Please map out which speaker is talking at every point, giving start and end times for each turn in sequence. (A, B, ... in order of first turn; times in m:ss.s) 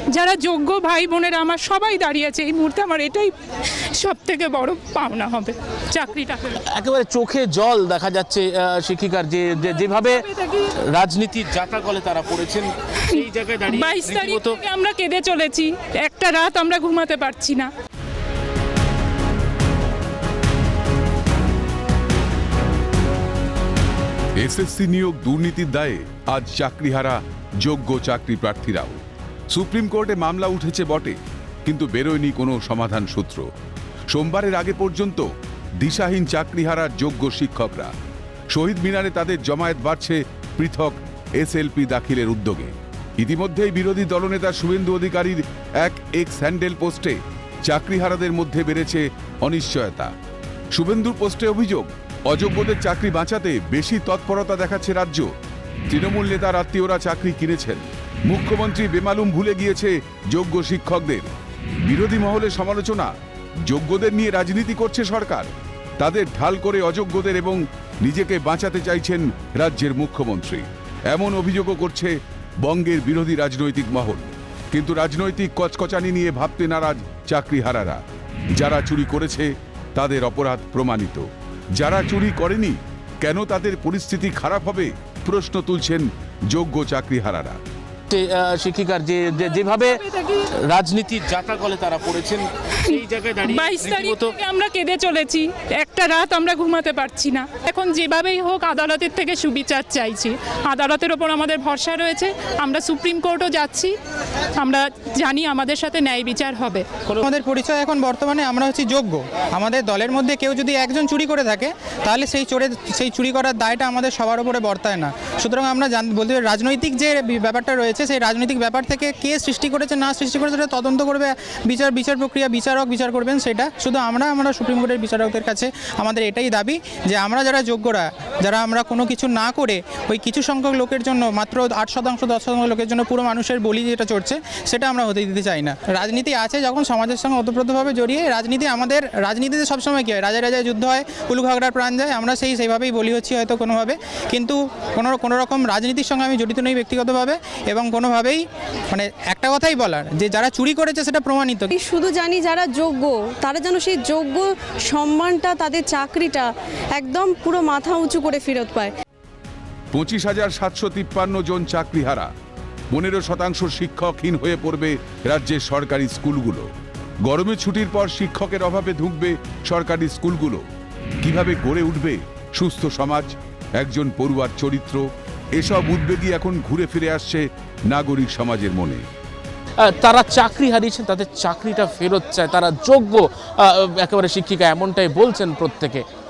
0:00.1-0:03.3 A
0:03.9-0:06.6 A
0:06.5-0:14.6 B
0:13.1-0:17.7 A
0:24.4-0:33.5 C
0:34.1-0:37.9 C
0:38.5-0:50.1 C
0:50.7-0:55.3 C
0:55.9-1:01.3 C
1:01.8-1:03.1 C
1:03.7-1:18.0 C
1:18.5-1:27.6 C
1:28.1-1:34.3 B
1:32.8-1:43.9 A
1:44.5-1:47.0 A
1:47.2-2:31.7 D
2:31.8-2:38.9 E
2:39.9-2:42.3 C
2:42.9-2:46.7 C
2:47.2-2:50.6 C
2:51.2-2:59.0 C
2:59.8-3:06.0 B